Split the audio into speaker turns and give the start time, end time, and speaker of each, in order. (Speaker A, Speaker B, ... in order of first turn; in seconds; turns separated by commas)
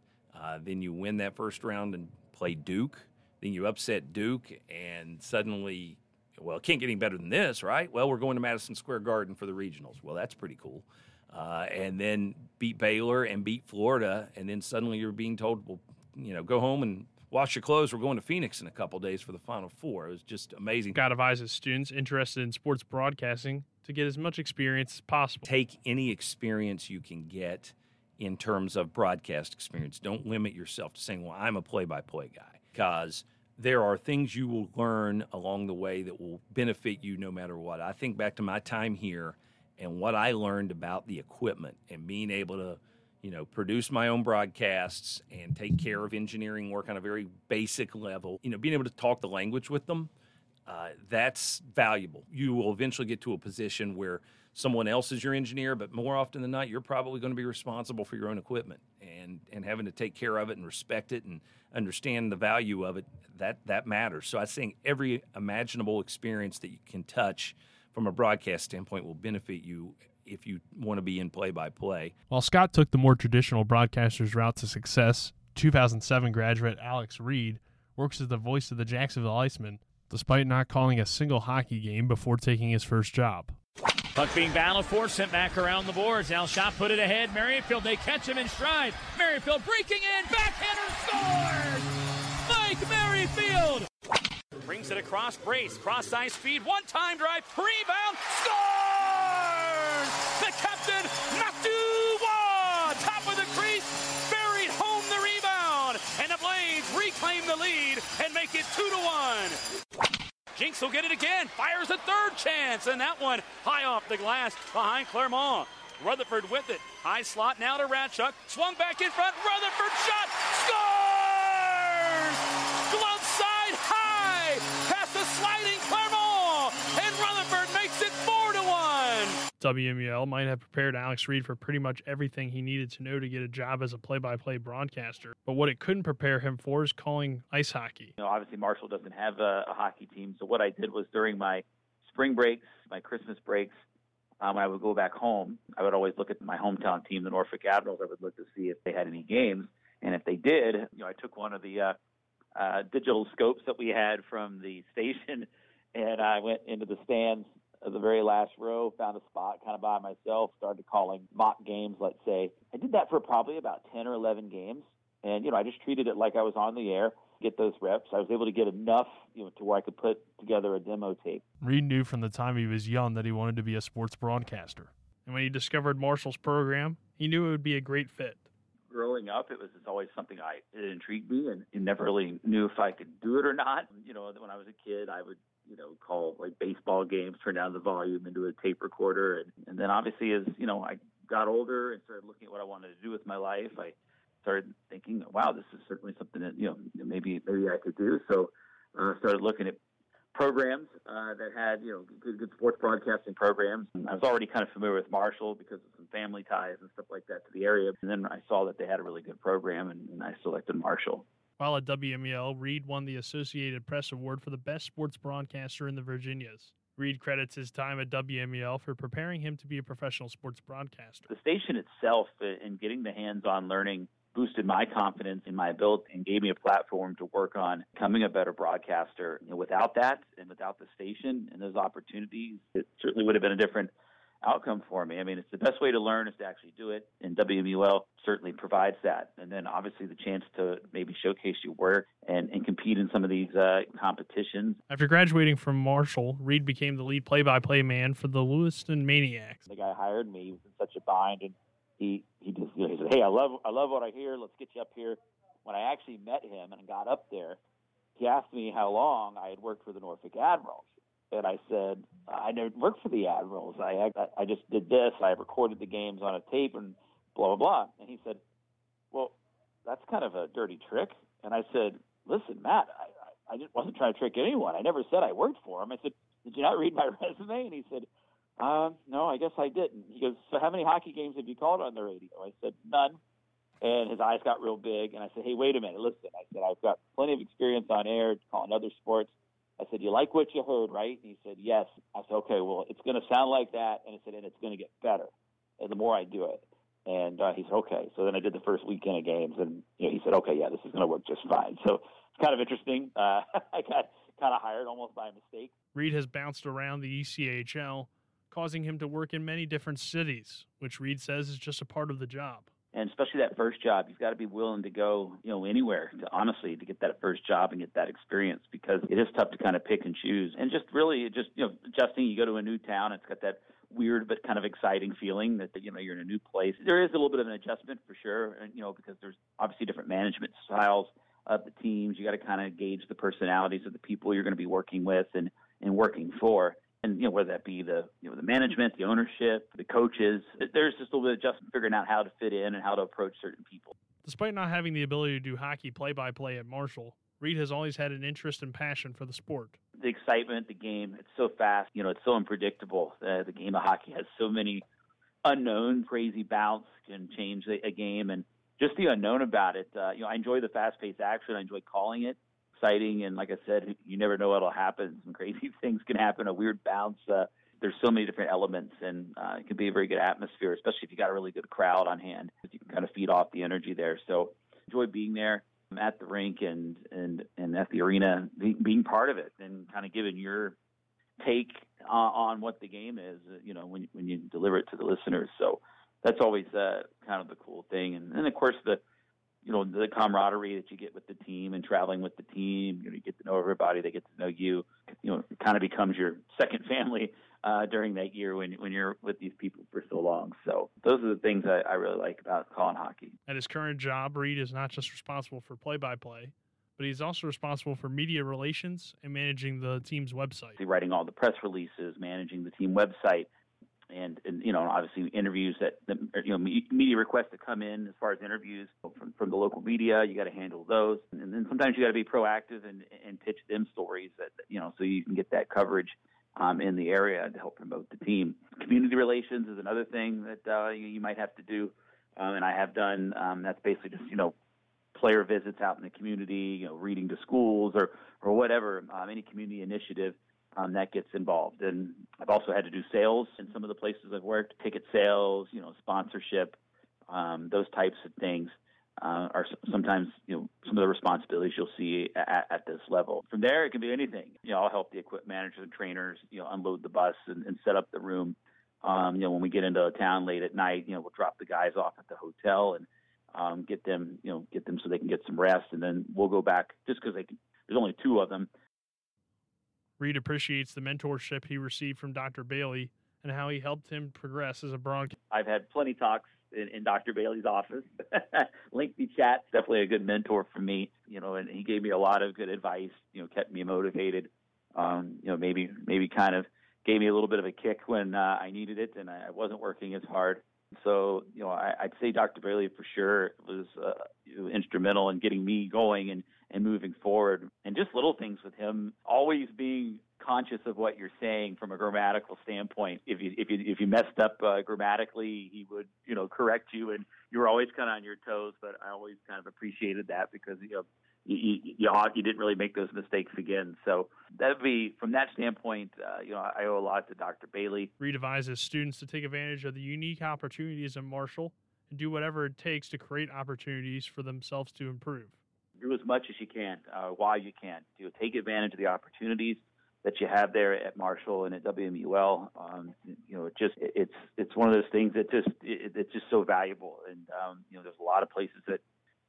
Speaker A: 0.3-21.0, Speaker B: 20.9-25.5, Speaker A: 25.5-50.1, Speaker A: 50.7-72.1, Speaker B: 72.3-83.6, Speaker C: 84.2-91.9, Speaker C: 92.4-93.9, Speaker C: 94.7-109.6, Speaker C: 110.5-129.4, Speaker B: 129.6-138.1, Speaker D: 138.2-143.7, Speaker D: 144.4-152.0, Speaker D: 152.6-171.4, Speaker B: 171.6-178.5, Speaker D: 178.9-199.8, Speaker D: 200.3-211.2, Speaker B: 211.6-221.3, Speaker D: 221.3-233.9, Speaker D: 234.4-244.8, Speaker B: 244.9-249.7, Speaker D: 249.7-257.6, Speaker D: 258.2-268.4, Speaker D: 269.1-278.1, Speaker D: 278.6-283.2, Speaker D: 283.8-305.7, Speaker B: 305.9-312.7, Speaker D: 312.9-343.9, Speaker B: 344.2-349.8, Speaker D: 350.0-354.9, Speaker D: 355.4-380.8, Speaker D: 381.4-389.0, Speaker D: 389.6-403.4, Speaker B: 403.5-410.8, Speaker D: 410.8-413.5, Speaker D: 414.1-434.5, Speaker D: 435.1-446.8, Speaker D: 447.3-468.7, Speaker B: 470.2-475.3, Speaker D: 475.5-518.1, Speaker B: 518.2-525.6, Speaker D: 526.0-539.0